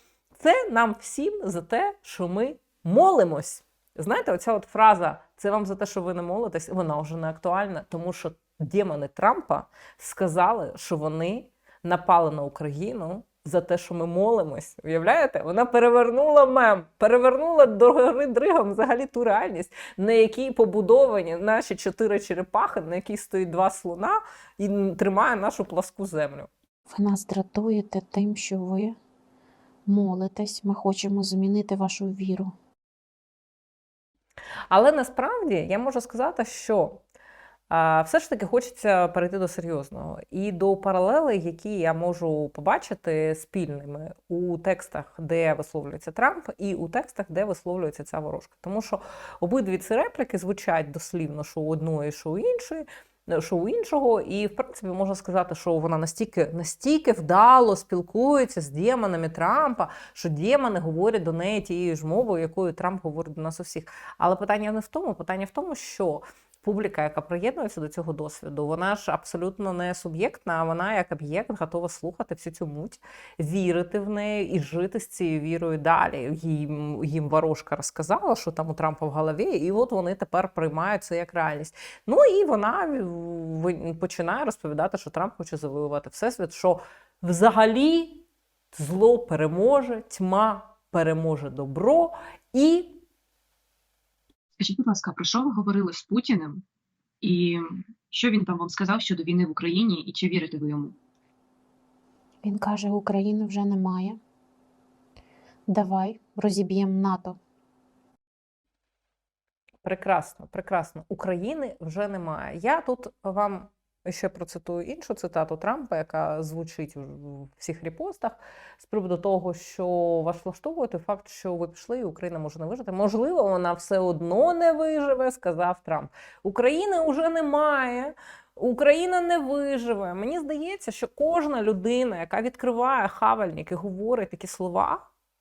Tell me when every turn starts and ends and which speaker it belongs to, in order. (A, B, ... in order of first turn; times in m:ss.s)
0:00.4-0:26.5 A
0:26.9-0:29.0 B
0:29.9-0:32.5 B
0:34.7-0:37.0 A
0:37.7-1:33.0 A
1:34.6-1:36.6 C
1:37.2-1:41.0 C
1:42.4-1:44.2 B
1:45.7-1:47.4 B
1:49.8-2:15.1 A